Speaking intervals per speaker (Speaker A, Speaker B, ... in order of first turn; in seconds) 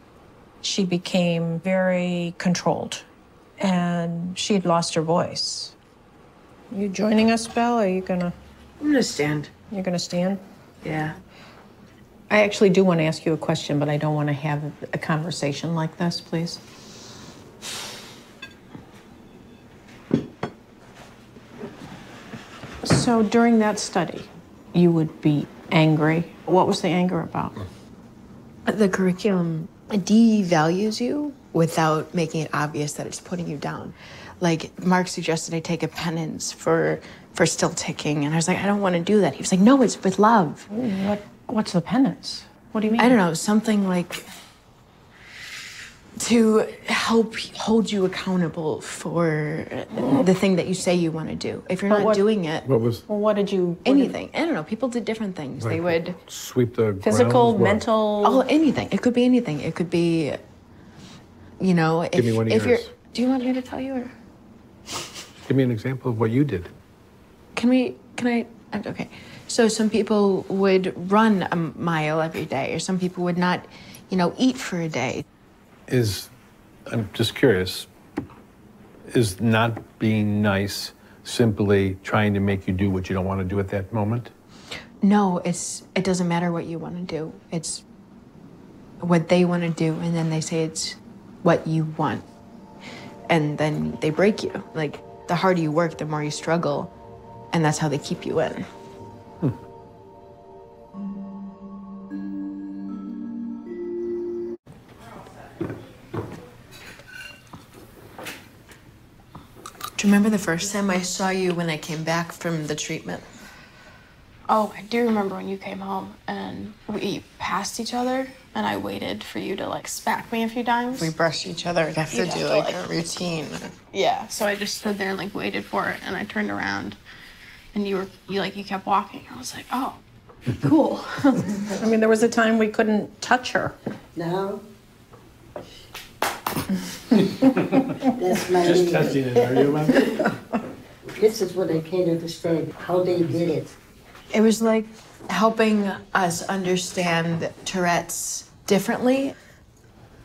Speaker A: 0.6-3.1, 3.6-5.7, 6.7-8.3, 9.7-10.4, 12.3-16.6, 22.8-27.6, 40.7-43.2, 51.9-52.2, 53.0-54.1, 57.0-58.4, 131.6-133.7
Speaker B: 8.8-9.5, 10.8-11.1, 28.7-40.7, 43.0-44.2, 46.2-52.7, 53.8-56.2, 58.2-60.4, 61.6-64.1, 67.5-75.2, 85.0-87.8, 89.0-92.2, 93.3-96.9, 97.5-98.6, 110.0-113.2, 120.9-123.8, 144.3-149.3
Speaker C: 52.6-53.0, 55.6-57.8, 62.1-62.9, 65.5-66.7, 75.9-76.3, 76.9-77.9, 79.1-84.3, 137.4-137.8, 138.5-140.2
Speaker D: 114.5-121.1, 122.0-122.8, 123.9-127.0, 127.7-130.0, 130.6-131.2
Speaker E: 134.2-134.6, 138.1-139.2, 141.1-143.7